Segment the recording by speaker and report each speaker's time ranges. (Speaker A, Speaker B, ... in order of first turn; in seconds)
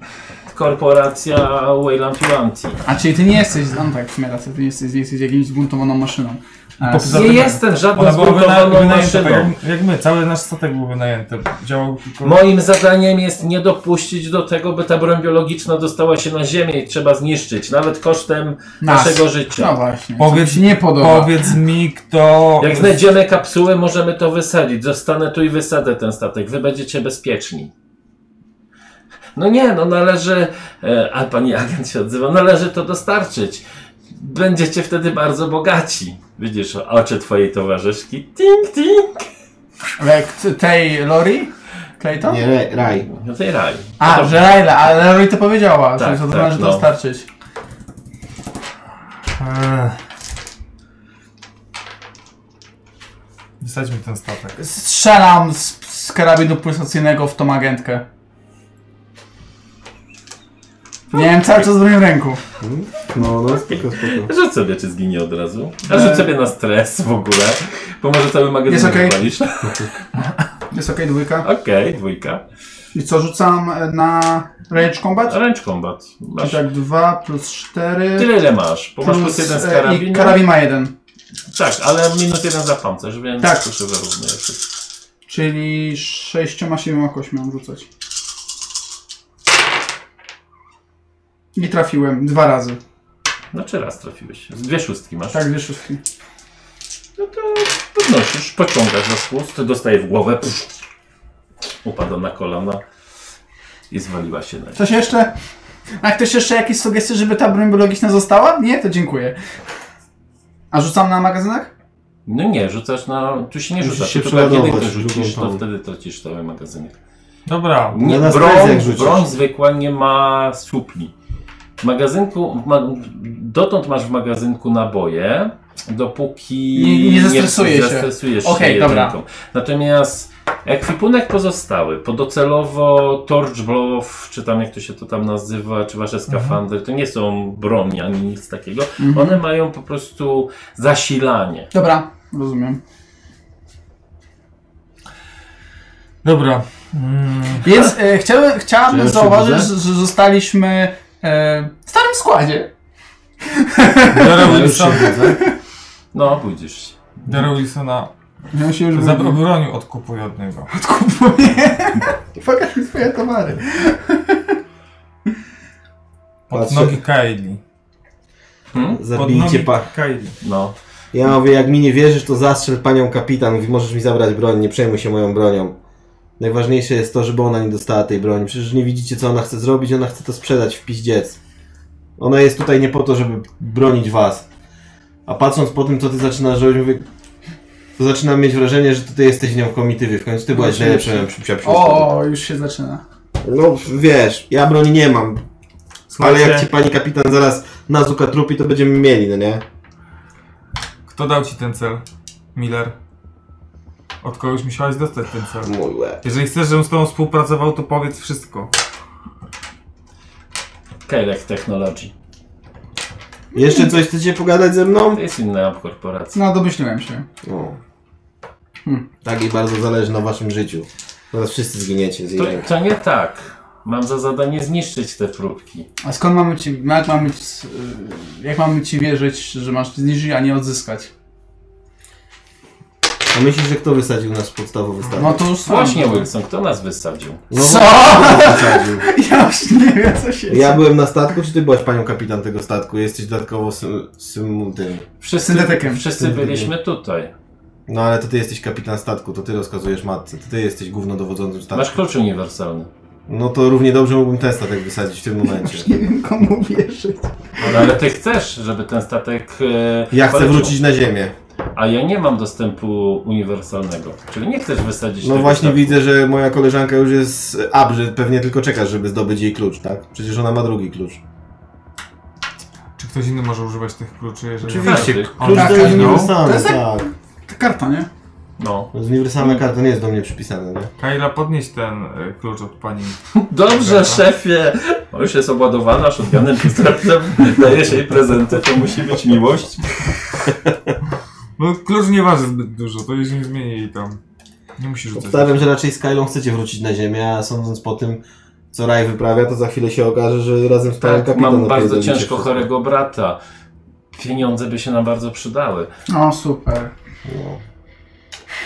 Speaker A: 0.5-2.8, 7.0-9.5, 12.2-19.8, 22.6-27.7, 29.3-39.3, 42.9-44.5, 46.0-46.9, 63.3-70.0, 71.4-72.4, 75.2-76.6, 78.2-80.4, 81.5-84.7, 93.5-95.4, 97.2-100.7, 101.8-102.8, 103.9-104.8, 112.2-117.0, 117.9-121.1, 121.8-141.7, 154.4-155.4, 156.1-157.4, 168.7-169.0, 170.4-170.8, 211.1-212.1, 215.1-216.4, 222.3-225.9, 235.6-237.4, 245.2-247.3, 251.7-252.9, 257.6-260.8, 261.7-266.0, 274.8-275.7, 278.6-278.9, 283.3-290.4, 301.0-303.4, 304.1-305.9
Speaker B: 2.9-7.5, 18.8-21.5, 40.0-42.4, 44.0-47.2, 54.6-58.0, 61.1-62.4, 65.9-66.3, 68.7-69.2, 70.7-71.5, 72.9-75.4, 76.4-78.3, 79.0-80.9, 83.4-83.6, 85.3-87.8, 91.5-92.8, 95.3-96.0, 104.8-105.3, 106.0-109.4, 110.7-111.7, 126.7-129.2, 139.0-139.4, 141.7-142.8, 147.6-152.7, 153.4-155.6, 158.5-159.4, 160.7-164.6, 190.5-193.0, 213.6-213.9, 216.3-217.2, 226.0-231.1, 235.2-236.3, 237.5-240.8, 245.4-246.0, 255.5-257.7, 275.5-278.1, 306.1-306.9
Speaker C: 6.8-12.4, 20.2-22.9, 49.3-50.0, 53.6-54.5, 117.5-118.0, 136.3-136.6, 146.2-147.7, 154.1-155.2, 157.2-158.1, 158.9-160.7, 166.5-167.6, 169.1-170.3, 196.1-196.7, 201.1-202.0, 202.5-202.9, 204.2-208.7, 273.0-276.4, 281.0-283.2, 283.7-284.2, 291.6-294.2, 294.8-295.6
Speaker D: 42.2-43.1, 62.6-64.3, 113.8-115.6, 118.0-119.3, 148.9-149.7, 154.5-155.2, 166.5-167.0, 168.9-169.9, 171.1-175.7, 176.4-181.4, 182.2-184.4, 185.2-187.1, 188.0-192.1, 193.4-195.4, 196.2-199.6, 205.6-206.2, 213.5-215.2, 217.4-217.8, 219.2-222.7, 233.3-235.4, 237.5-239.1, 240.5-245.0, 246.2-246.7, 247.9-252.0, 253.3-255.9, 260.1-261.3, 265.2-271.2, 274.6-277.1, 278.9-280.9, 295.1-302.7, 307.2-307.6